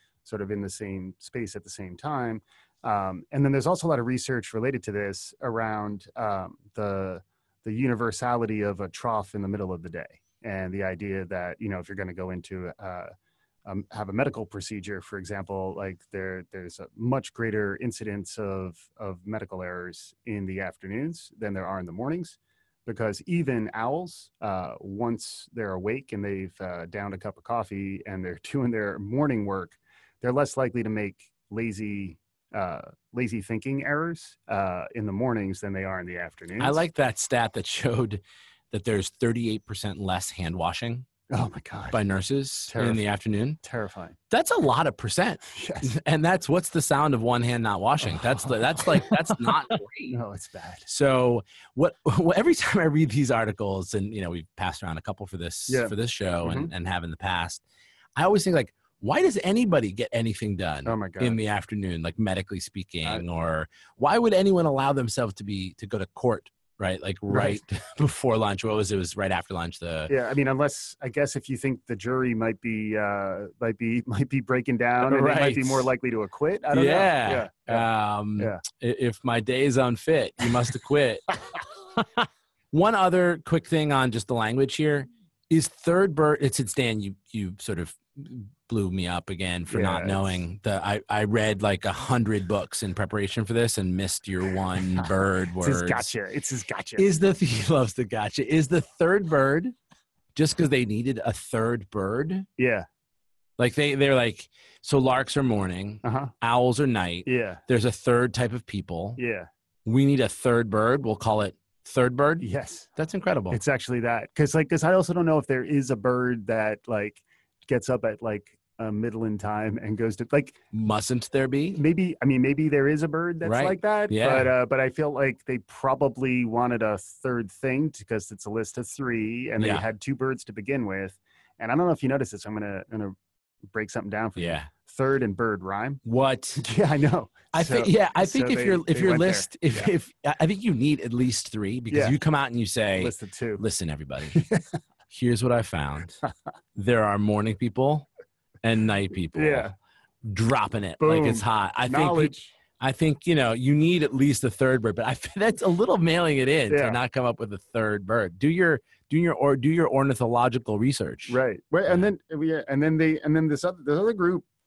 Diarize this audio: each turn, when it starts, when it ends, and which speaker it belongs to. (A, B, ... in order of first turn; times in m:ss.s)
0:00.3-0:13.1 A
0:13.7-0:36.8 A
0:36.6-0:41.1 B
0:41.3-0:42.0 A
0:41.9-0:43.6 B
0:42.7-0:43.0 A
0:43.6-0:44.2 A
0:44.3-0:50.2 B
0:45.5-0:45.9 A
0:50.1-0:50.9 A
0:50.9-0:57.6 B
0:55.7-0:56.7 A
0:58.2-1:10.1 B
1:00.8-1:01.4 A
1:07.3-1:07.6 A
1:10.1-1:18.6 A
1:15.0-1:15.9 B
1:16.7-1:21.2 B
1:22.7-1:36.1 B
1:29.7-1:30.4 A
1:35.6-1:37.1 A
1:37.0-1:39.7 B
1:40.4-1:42.5 B
1:42.6-1:42.9 A
1:43.6-1:49.2 B
1:46.0-1:46.3 A
1:47.2-1:47.6 A
1:49.2-1:49.5 A
1:49.9-1:52.4 B
1:52.4-1:52.9 A
1:53.0-1:53.6 B
1:53.5-2:00.6 A
2:00.7-2:01.8 B
2:01.8-2:13.2 A
2:03.4-2:04.5 B
2:09.6-2:09.8 B
2:13.7-2:16.0 A
2:14.4-2:14.7 B
2:16.0-2:16.6 B
2:16.6-2:19.9 A
2:17.5-2:24.4 B
2:21.9-2:22.2 A
2:23.0-2:23.6 A
2:24.3-2:24.6 A
2:25.1-2:26.2 B
2:26.8-2:28.1 B
2:28.6-2:29.7 B
2:29.3-2:29.8 A
2:30.2-2:41.4 B
2:31.0-2:32.5 A
2:36.7-2:37.0 A
2:41.3-2:44.5 A